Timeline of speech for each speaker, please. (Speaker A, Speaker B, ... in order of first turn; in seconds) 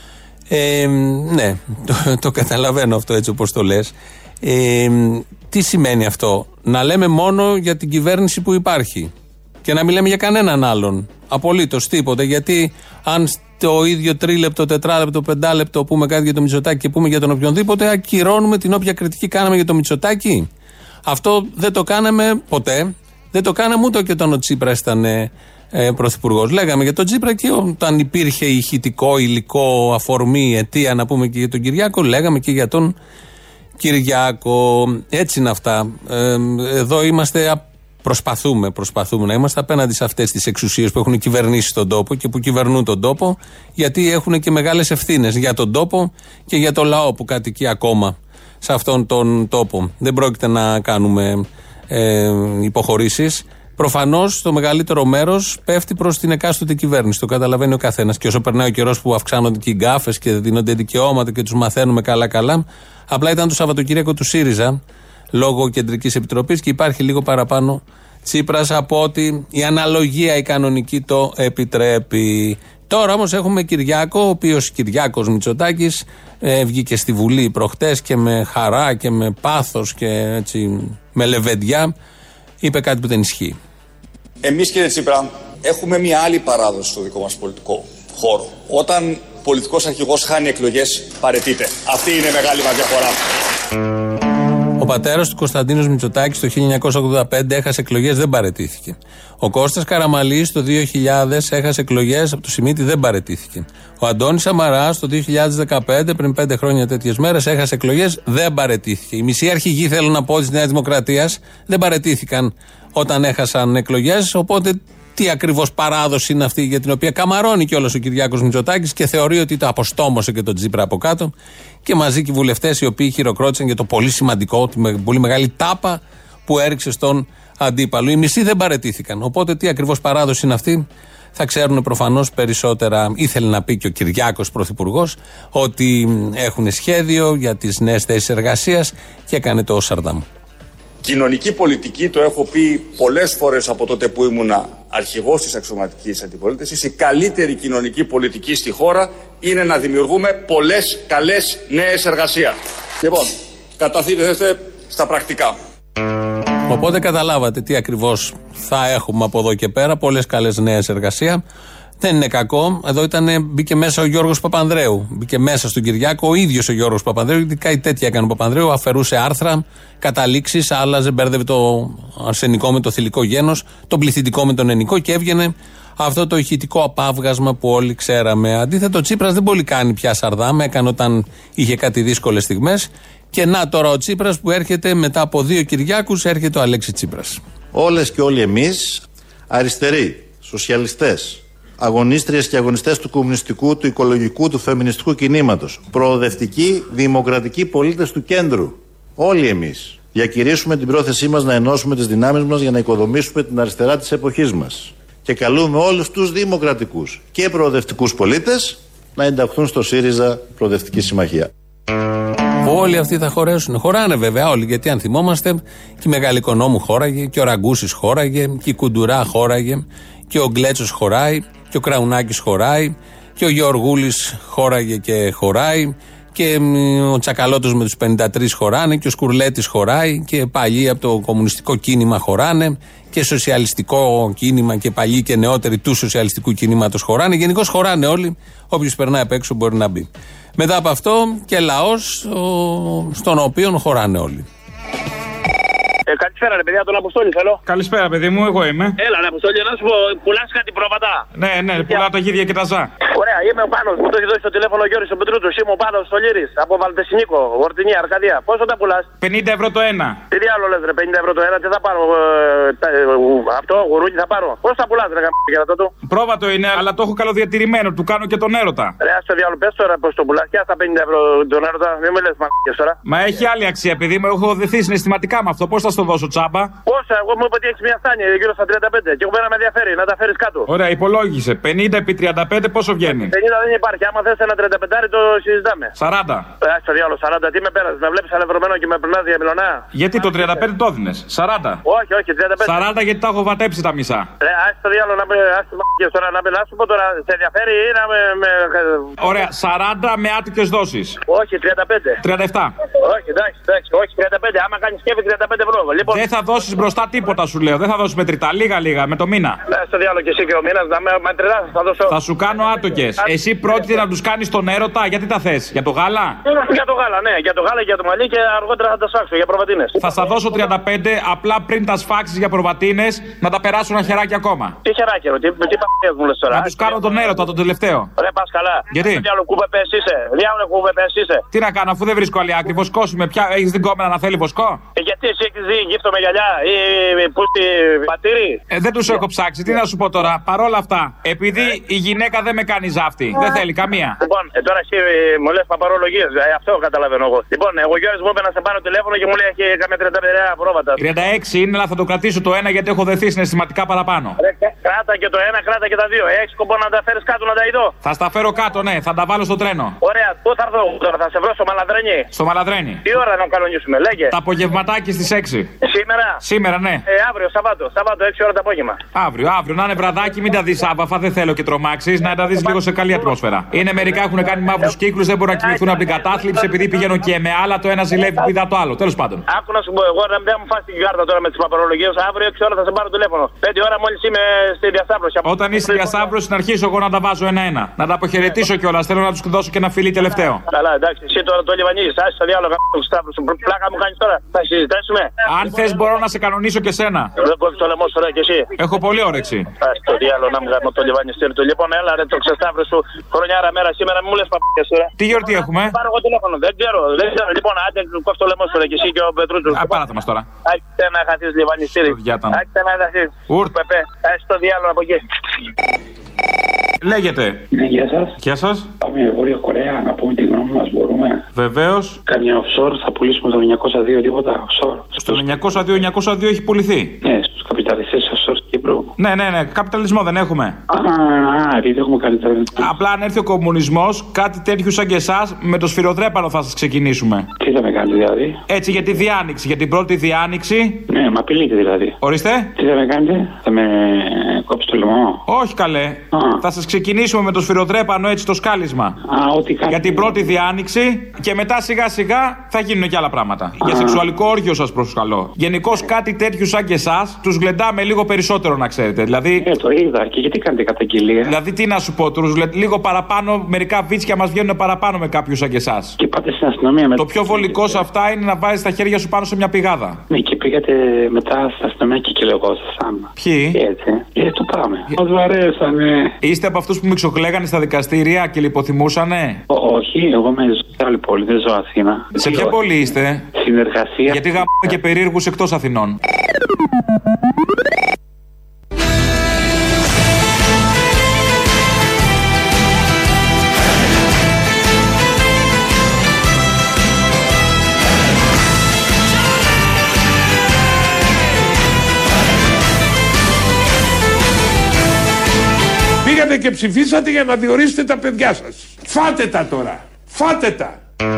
Speaker A: 0.5-9.1, 9.6-20.5, 21.1-32.9, 33.8-64.8, 65.3-81.9, 82.6-83.6, 94.8-121.3, 121.8-130.8, 131.4-140.3, 156.7-161.4, 162.0-187.4, 212.6-244.5
Speaker B: 84.4-93.1, 141.0-155.6
Speaker C: 187.7-211.5
Speaker D: 246.1-247.6, 249.0-251.2, 251.8-252.0, 253.1-259.1, 260.3-265.9, 269.0-273.0, 276.9-280.7, 283.1-285.9, 286.6-290.6, 291.9-292.8, 294.4-299.1, 301.3-302.2, 303.0-306.2, 309.7-312.1, 313.2-313.8, 316.6-319.9, 324.9-327.1, 328.2-331.4, 335.0-338.6, 343.4-343.6, 344.2-351.0, 354.4-357.9, 360.0-362.3, 363.1-364.3, 365.8-366.4, 367.1-369.0, 375.5-377.0, 379.5-386.2, 390.7-395.3, 397.4-398.7, 399.8-410.0, 410.7-415.3
Speaker E: 247.7-249.0, 251.3-252.9, 259.2-260.2, 266.1-268.9, 273.1-276.7, 280.7-283.3, 286.0-286.5, 289.9-291.8, 292.6-294.3, 299.2-301.2, 302.2-302.7, 306.1-309.6, 312.1-316.4, 320.0-324.8, 326.5-328.1, 328.9-329.3, 331.5-334.8, 338.7-344.2, 351.0-354.4, 358.0-360.0, 362.3-363.1, 364.3-365.7, 366.4-367.0, 369.1-379.4, 385.4-390.6, 395.5-397.3, 398.8-399.7, 405.2-406.0, 409.7-410.5, 412.1-412.6, 413.5-413.7, 417.0-417.7, 418.4-418.9, 421.6-422.2, 425.2-427.2, 429.2-430.8, 432.8-437.5, 438.7-441.1, 442.2-442.7, 445.5-449.2, 449.9-459.7, 461.5-466.2, 467.2-470.2, 473.4-473.8, 476.4-479.6, 482.4-483.5, 484.3-486.2
Speaker F: 417.7-418.3, 419.0-421.4, 422.3-425.4, 427.2-429.1, 430.9-432.9, 437.6-438.6, 441.1-442.2, 442.8-445.4, 446.3-446.6, 449.3-450.5, 453.8-454.2, 459.6-461.6, 466.2-468.0, 470.3-476.3, 479.7-482.7, 483.6-484.6
Speaker G: 506.2-511.0